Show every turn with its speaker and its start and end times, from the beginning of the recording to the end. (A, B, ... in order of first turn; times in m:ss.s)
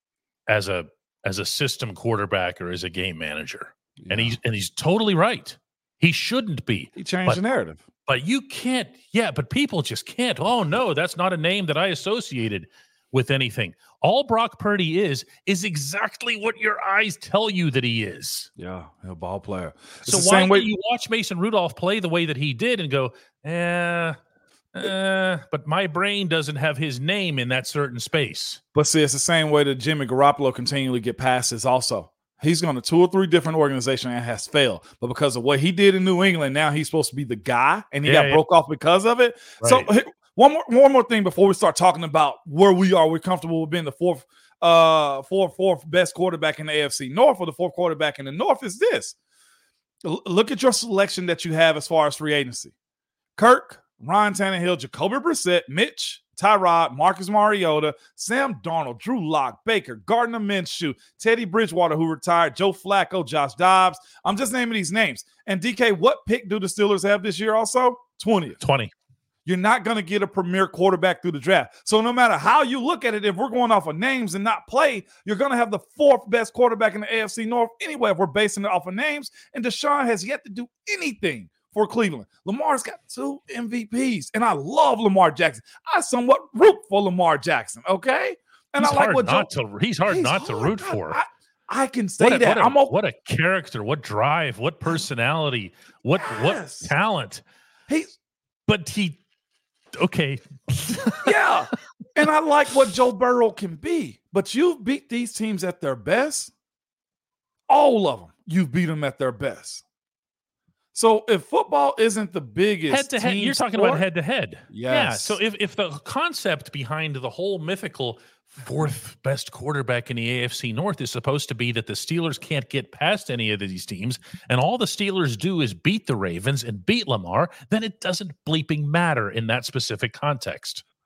0:00.5-0:07.4 A
0:04.0-0:04.4 B
0:07.0-0:07.8 B
0:08.0-0:18.5 A
0:18.6-0:20.7 B
0:20.0-0:24.2 A
0:24.7-0:28.6 A
0:28.7-0:49.2 B
0:38.0-0:38.4 A
0:39.6-0:39.9 A
0:50.0-0:52.7 B
0:53.4-1:08.6 B
1:08.6-1:08.9 A
1:09.4-1:29.5 B
1:28.8-1:31.2 A
1:30.1-1:32.9 B
1:32.2-1:37.4 A
1:36.2-1:36.9 B
1:37.9-1:38.1 B
1:38.7-1:39.2 A
1:40.0-1:41.4 A
1:41.2-1:46.5 B
1:47.7-1:49.8 B
1:50.9-1:54.0 B
1:52.9-2:10.8 A
1:54.7-1:55.4 B